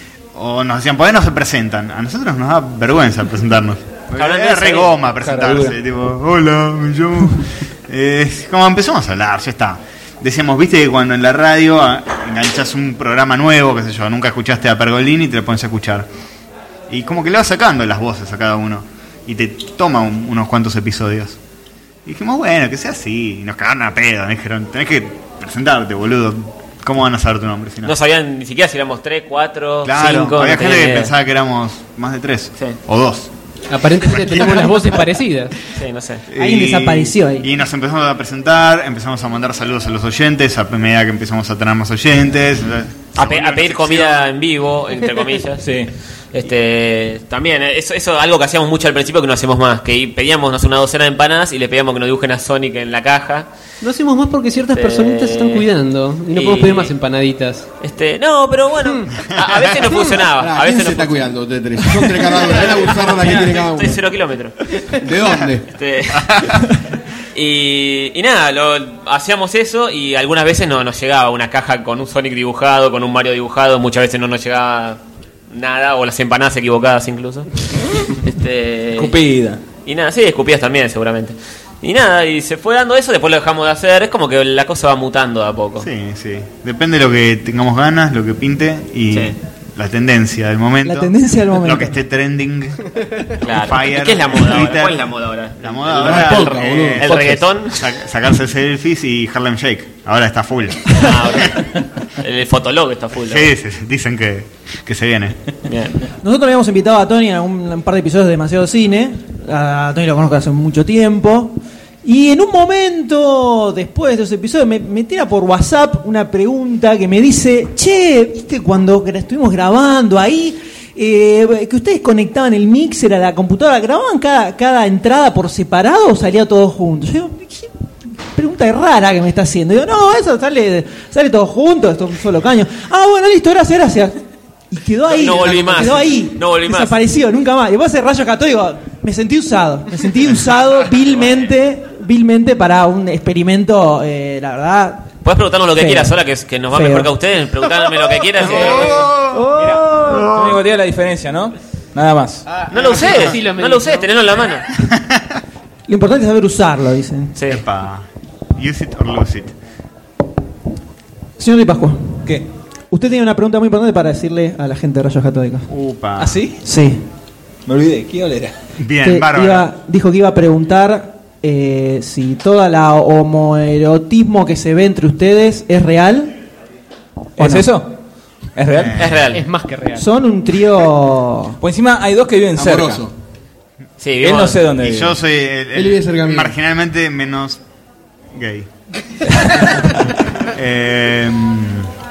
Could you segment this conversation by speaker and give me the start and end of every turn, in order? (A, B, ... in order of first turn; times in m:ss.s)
0:00.3-0:16.1 A
0:04.2-0:05.0 B
0:05.2-0:05.7 C
0:16.9-0:21.4 A
0:22.0-0:27.9 A
0:27.8-0:31.1 B
0:29.8-0:33.3 A
0:33.7-0:35.5 D
0:34.1-0:34.9 A
0:35.7-0:36.2 B
0:36.3-0:44.2 A
0:36.4-0:37.4 E
0:43.2-0:45.6 B
0:45.6-0:45.9 C
0:46.3-0:53.5 B
0:53.8-0:57.7 D
0:54.7-0:55.6 B
0:56.3-0:56.9 B
0:57.8-1:01.2 B
0:59.3-0:59.6 A
1:00.2-1:04.0 F
1:02.4-1:04.6 B
1:05.0-1:05.6 F
1:05.7-1:06.4 B
1:06.1-1:06.7 A
1:07.3-1:17.5 B
1:18.2-1:19.2 B
1:18.9-1:19.6 C
1:19.8-1:25.9 B
1:25.8-1:32.8 A
1:30.8-1:31.9 E
1:33.4-1:38.0 B
1:33.4-1:35.1 A
1:35.6-1:41.5 A
1:36.0-1:37.4 F
1:40.9-1:43.5 B
1:43.3-1:45.4 A
1:45.6-1:46.0 B
1:46.2-2:07.7 E
2:08.3-2:14.2 E
2:14.7-2:25.1 E
2:15.1-2:17.0 B
2:25.2-2:29.1 B
2:25.8-2:26.1 E
2:26.7-2:27.1 E
2:28.4-2:29.4 A
2:29.3-2:30.3 E
2:29.6-2:32.4 C
2:30.0-2:30.6 A
2:32.4-2:34.1 D
2:32.7-2:34.7 B
2:34.8-2:35.2 A
2:35.9-2:37.3 E
2:37.4-2:37.6 B
2:37.5-2:39.5 A
2:41.4-2:42.2 E
2:42.9-2:45.7 E
2:45.7-2:46.4 A
2:46.2-2:46.6 C
2:46.6-2:47.0 E
2:47.6-2:48.5 C
2:48.8-2:49.6 A
2:49.0-2:56.3 E
2:57.4-2:57.9 C
2:57.4-2:57.7 E
2:58.5-2:59.2 C
2:58.7-2:59.2 A
2:59.0-2:59.4 B
2:59.3-3:00.0 D
3:00.0-3:01.6 E
3:01.6-3:03.0 C
3:02.6-3:03.1 F
3:04.0-3:04.6 B
3:04.2-3:05.2 C
3:04.8-3:07.6 A
3:05.7-3:06.5 F
3:08.3-3:08.7 A
3:10.4-3:11.9 A